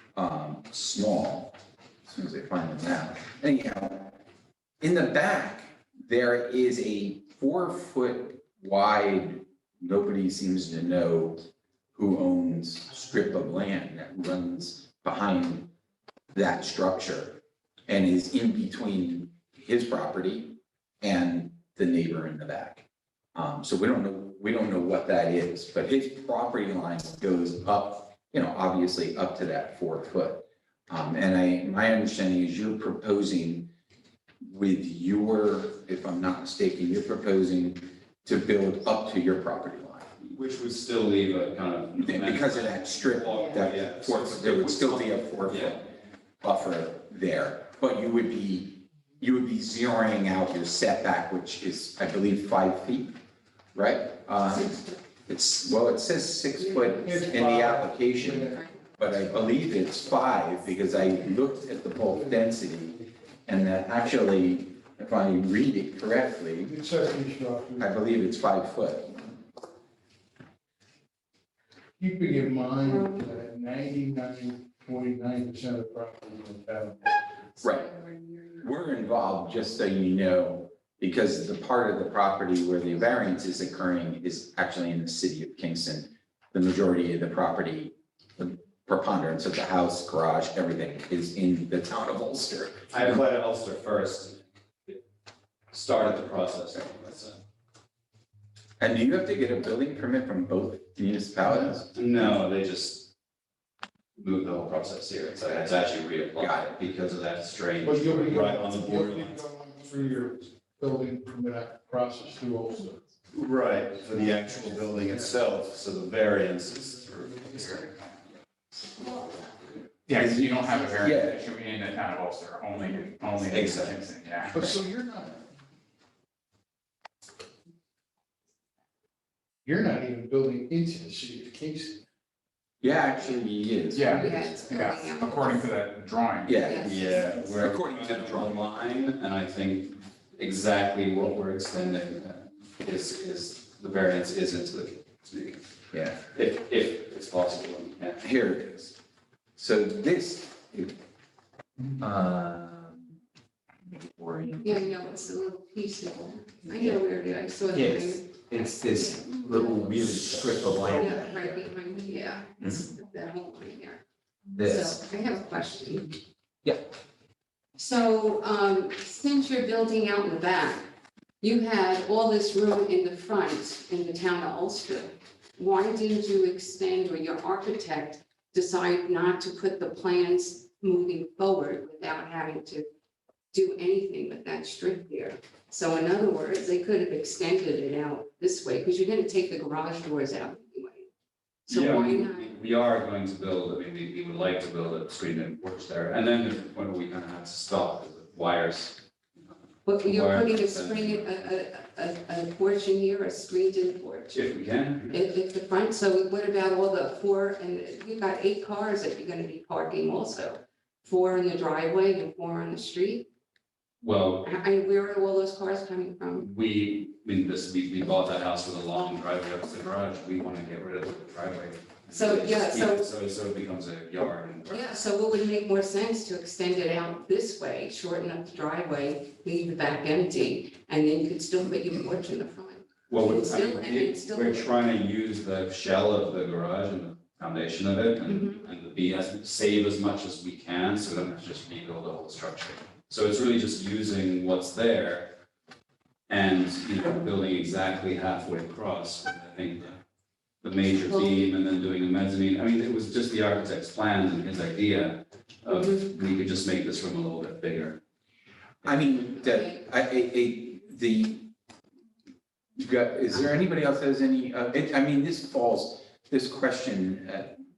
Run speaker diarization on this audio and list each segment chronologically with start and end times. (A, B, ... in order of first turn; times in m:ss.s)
0:00.1-0:01.5 A
0:02.1-0:04.2 A
0:04.8-0:11.4 A
0:11.9-0:15.7 A
0:16.3-0:33.7 A
0:34.4-0:40.1 A
0:40.2-0:45.8 B
0:42.0-0:53.2 A
0:53.7-1:06.7 A
0:56.7-0:57.2 C
0:56.8-0:58.6 D
1:02.0-1:02.5 D
1:06.6-1:07.9 D
1:07.8-1:09.3 A
1:12.0-1:17.1 D
1:12.8-1:13.2 C
1:17.6-1:18.7 C
1:17.6-1:17.9 A
1:18.6-1:32.9 A
1:32.9-1:35.0 B
1:35.7-1:37.4 B
1:38.8-1:42.2 A
1:41.9-1:43.1 B
1:44.2-1:49.4 B
1:46.4-1:46.7 A
1:47.8-1:53.0 D
1:53.3-1:57.9 B
1:54.3-1:55.2 D
1:57.1-1:57.7 D
1:57.6-1:57.9 E
2:00.0-2:04.6 E
2:00.2-2:01.4 A
2:03.5-2:04.0 A
2:04.5-2:05.4 D
2:09.6-2:12.0 D
2:12.8-2:14.3 A
2:13.9-2:16.6 E
2:14.1-2:15.6 C
2:16.4-2:18.6 A
2:16.6-2:17.1 C
2:16.7-2:25.6 B
2:25.9-2:26.2 A
2:26.2-2:28.2 B
2:28.1-2:29.0 A
2:29.6-2:30.9 A
2:32.0-2:33.1 A
2:33.9-2:34.9 A
2:34.6-2:39.9 C
2:37.7-2:41.6 A
2:40.9-2:44.0 C
2:42.6-2:42.9 A
2:44.5-2:45.0 A
2:44.6-2:46.2 C
2:47.8-2:50.9 C
2:51.4-3:02.8 C
3:03.5-3:11.1 C
3:11.7-3:12.5 C
3:11.7-3:19.0 B
3:19.8-3:24.4 C
3:19.9-3:21.4 B
3:24.3-3:25.2 B
3:25.1-3:33.3 C
3:34.0-3:34.5 B
3:34.4-3:36.5 C
3:36.4-3:45.0 B
3:42.1-3:43.1 C
3:44.7-3:54.7 C
3:53.1-4:05.3 B
3:58.3-3:58.6 C
4:06.3-4:10.0 B
4:10.6-4:18.0 B
4:11.1-4:11.4 C
4:15.7-4:16.0 C
4:18.8-4:21.5 A
4:19.1-4:19.8 C
4:22.8-4:27.5 A